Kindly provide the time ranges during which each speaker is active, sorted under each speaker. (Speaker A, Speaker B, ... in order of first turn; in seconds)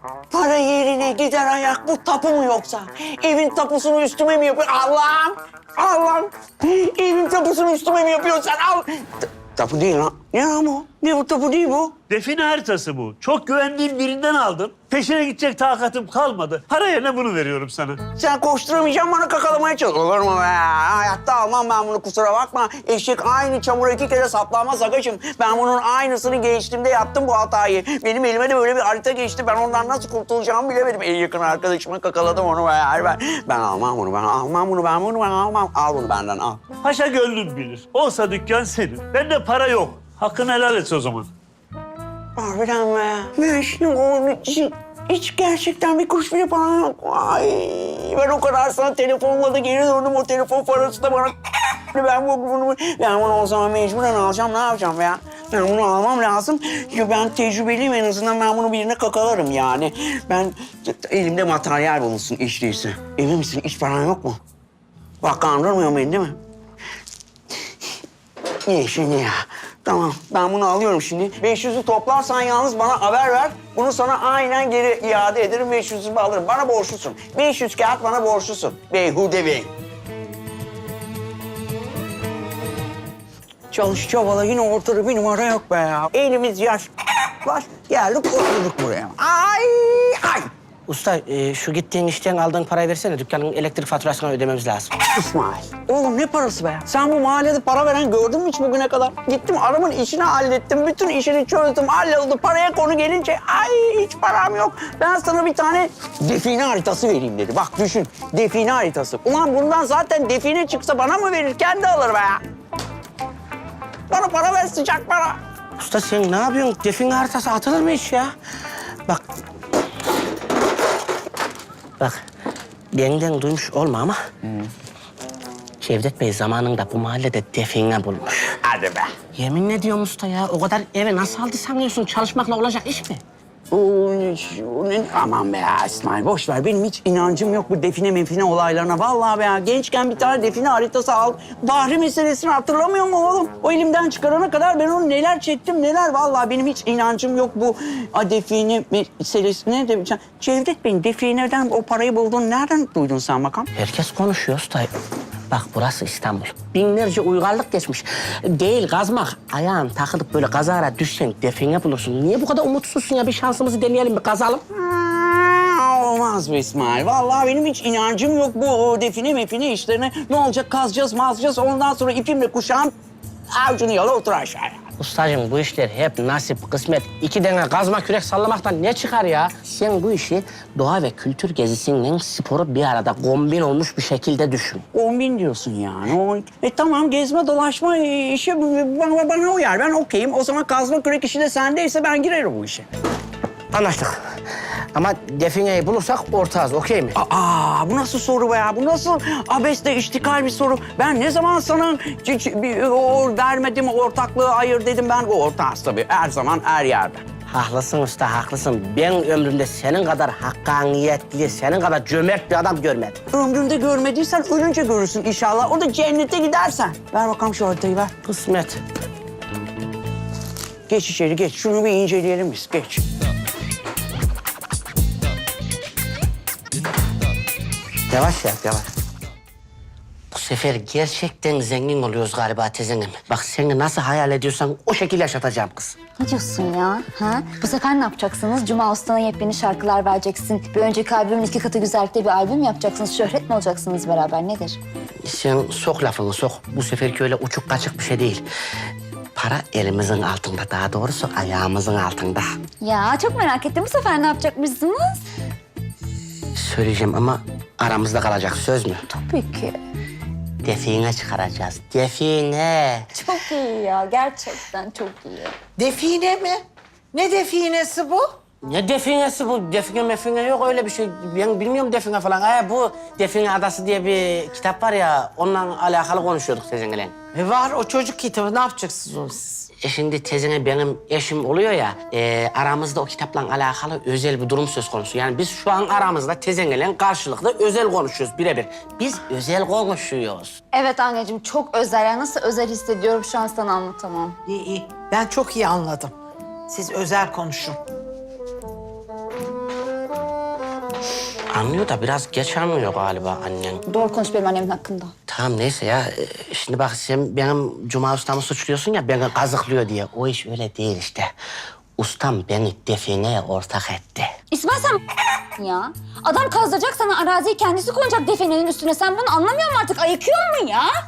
Speaker A: 0.3-12.0, 18.2-36.6, 42.4-64.4, 65.2-66.4, 68.7-79.7, 83.7-90.5, 95.0-112.4, 114.1-115.4, 128.6-129.1, 133.7-153.7, 164.7-172.9, 173.5-174.9, 184.9-192.9, 197.1-207.2, 213.3-218.1, 220.9-223.0
Speaker B: 12.1-18.0, 36.8-41.3
Speaker C: 90.9-95.0, 115.8-118.3, 122.9-124.2, 125.8-128.6, 129.3-133.2, 153.8-154.9, 155.5-164.6, 175.0-184.8, 193.7-194.2, 194.9-197.2, 207.5-213.2, 218.2-218.8, 228.1-228.9, 230.3-236.0, 245.2-248.4, 249.3-252.5, 256.6-259.1, 260.6-263.1, 268.6-277.1, 279.8-290.6, 301.5-303.8, 305.3-311.3, 312.0-314.3
Speaker D: 236.2-244.8, 252.8-255.2, 259.1-259.8, 263.1-265.6, 290.7-294.4, 303.9-305.1, 314.5-315.0, 315.6-320.9
Speaker E: 265.8-268.4, 277.3-279.7, 294.5-296.1, 296.7-297.8